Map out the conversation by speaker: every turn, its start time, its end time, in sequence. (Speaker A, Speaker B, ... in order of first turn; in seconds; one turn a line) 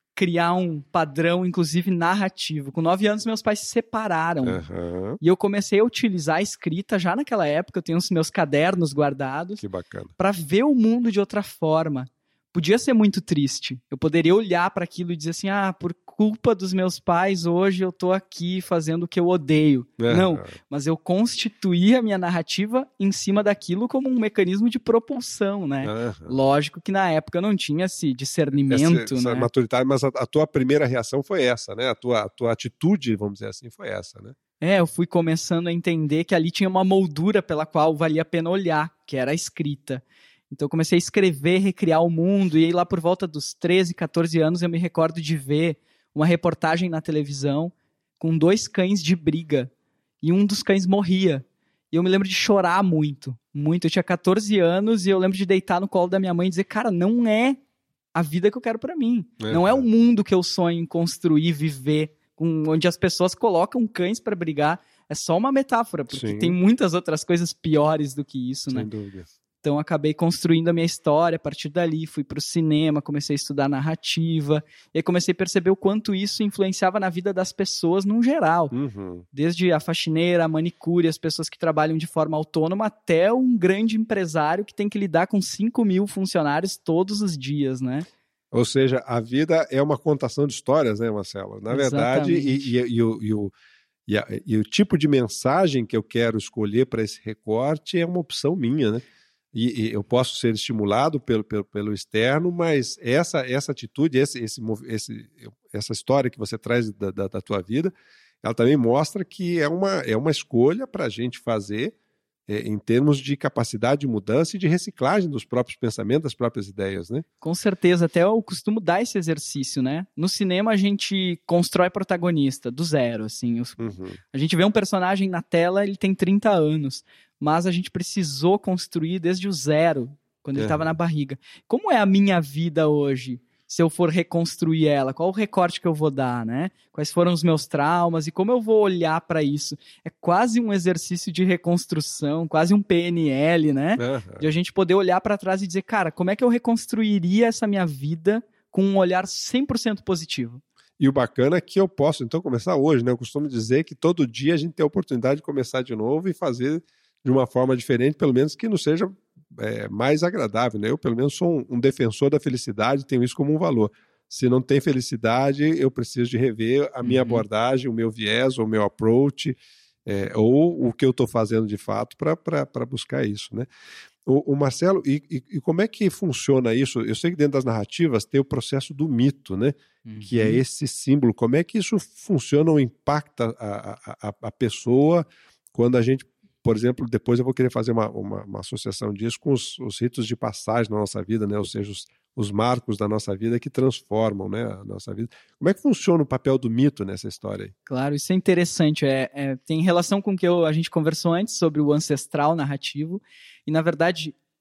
Speaker A: 0.1-4.6
Speaker B: 4.4-5.2
Speaker A: 5.2-9.6
Speaker B: 9.6-10.1
Speaker A: 10.2-29.5
Speaker B: 20.0-20.5
Speaker B: 25.8-26.3
Speaker B: 28.6-34.4
Speaker A: 34.6-49.7
Speaker A: 50.2-57.6
Speaker A: 58.1-68.9
Speaker B: 59.4-59.8
Speaker B: 66.1-66.6
Speaker B: 68.7-69.3
Speaker A: 69.6-78.7
Speaker B: 78.7-79.2
Speaker A: 79.3-88.0
Speaker B: 88.5-93.5
Speaker A: 91.7-92.7
Speaker B: 94.1-107.9
Speaker B: 108.4-111.9
Speaker B: 112.5-117.2
Speaker A: 117.4-150.6
Speaker B: 123.8-124.2
Speaker B: 130.6-130.9
Speaker B: 144.0-144.5
Speaker B: 151.0-173.7
Speaker A: 167.0-167.4
Speaker B: 174.2-197.7
Speaker A: 180.0-180.6
Speaker A: 197.9-204.3